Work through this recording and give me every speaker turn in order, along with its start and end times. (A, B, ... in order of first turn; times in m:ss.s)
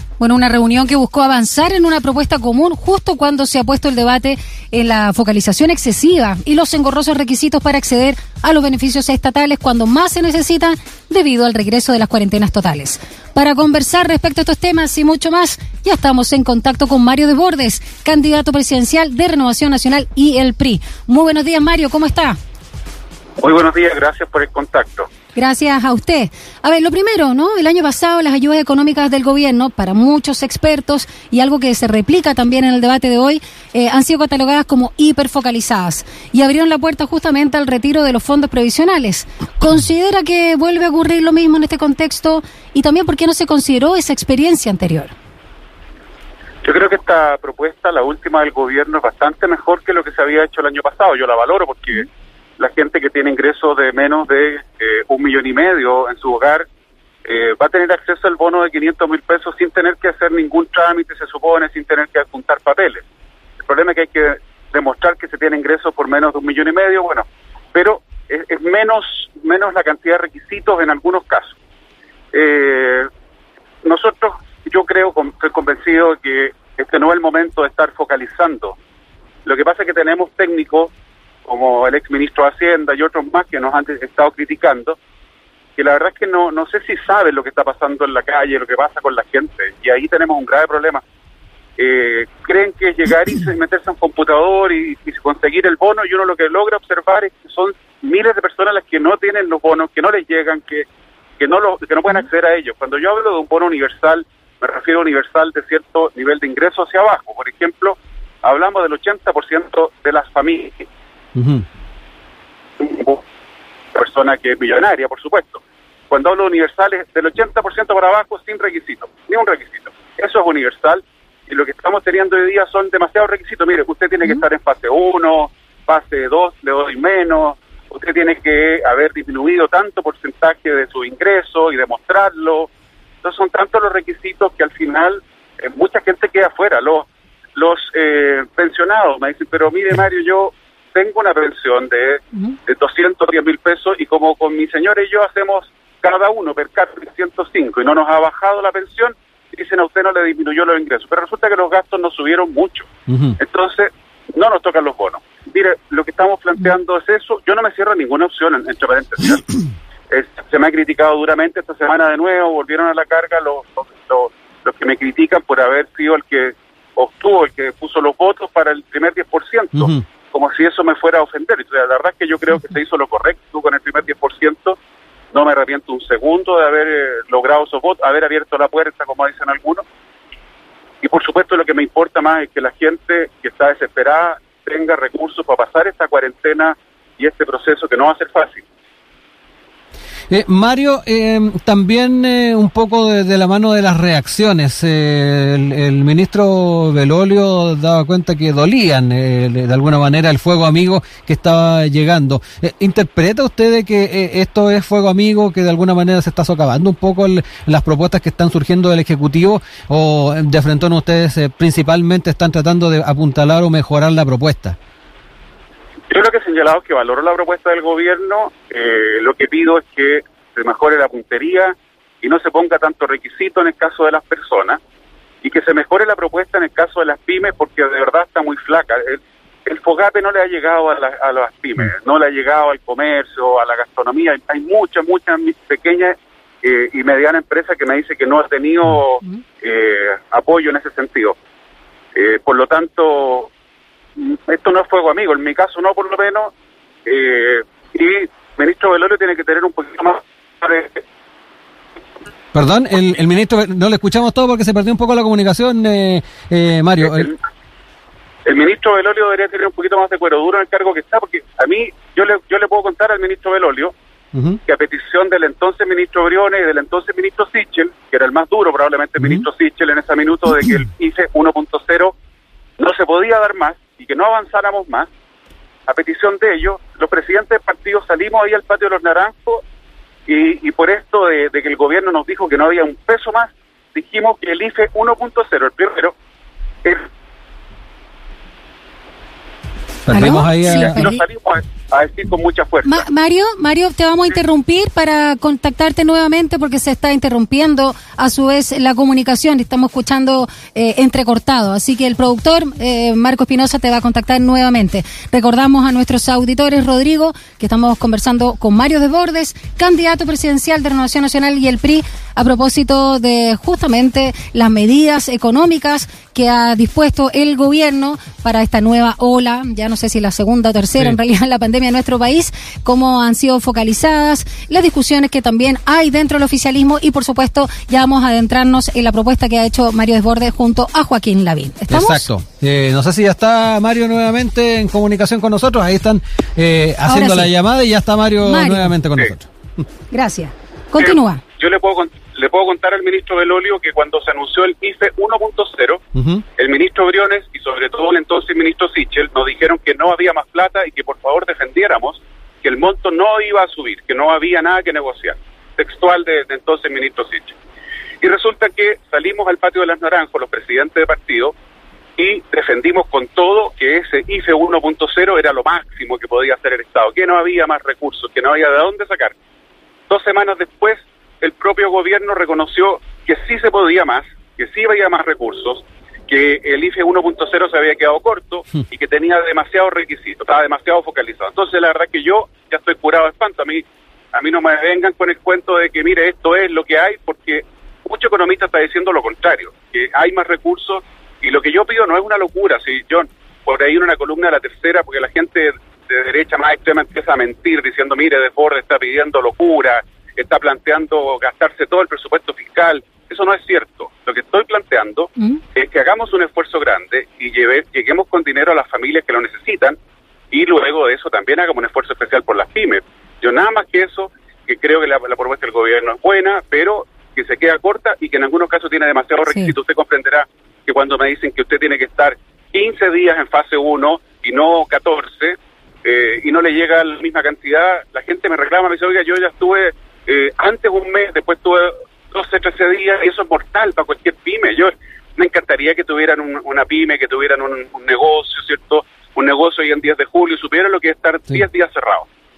0:00.2-0:22.4 A
0:23.4-0:25.1 B
0:25.3-0:45.1 A
0:46.6-0:52.1 B
0:52.6-0:56.7 B
0:57.2-1:03.0 B
1:03.6-1:11.6 B
1:12.3-1:13.1 B
1:13.8-1:18.8 B
1:19.4-1:20.9 B
1:21.4-1:25.0 B
1:25.8-1:31.0 B
1:31.8-1:40.9 B
1:41.4-1:50.8 B
1:51.4-1:51.6 C
1:52.8-1:53.2 B
1:54.0-2:12.7 B
2:13.2-2:32.9 B
2:33.4-2:39.6 B
2:40.1-2:54.8 B
2:55.3-2:59.8 B
3:01.0-3:08.6 B
3:10.3-3:34.8 C
3:36.1-3:44.8 B
3:45.4-4:01.4 B
4:02.2-4:03.5 B
4:04.2-4:06.5 B
4:07.0-4:11.0 B
4:12.5-4:17.3 C
4:17.0-4:17.4 B
4:18.4-4:23.9 B
4:24.3-4:24.6 C
4:24.7-4:32.2 B
4:32.8-4:35.1 B
4:35.9-4:39.6 B
4:40.3-4:46.1 B
4:50.1-4:51.0 C
4:50.1-4:51.2 A
4:50.6-4:53.0 B
4:52.8-5:32.2 A
5:31.9-5:39.5 C
5:37.0-5:37.5 A
5:38.4-5:38.9 A
5:40.1-5:41.4 A
5:41.0-5:46.0 B
5:46.2-5:46.4 C
5:46.6-5:57.6 B
5:58.2-6:01.5 B
6:02.2-6:09.4 B
6:10.1-6:50.0 B
6:50.5-7:22.2 B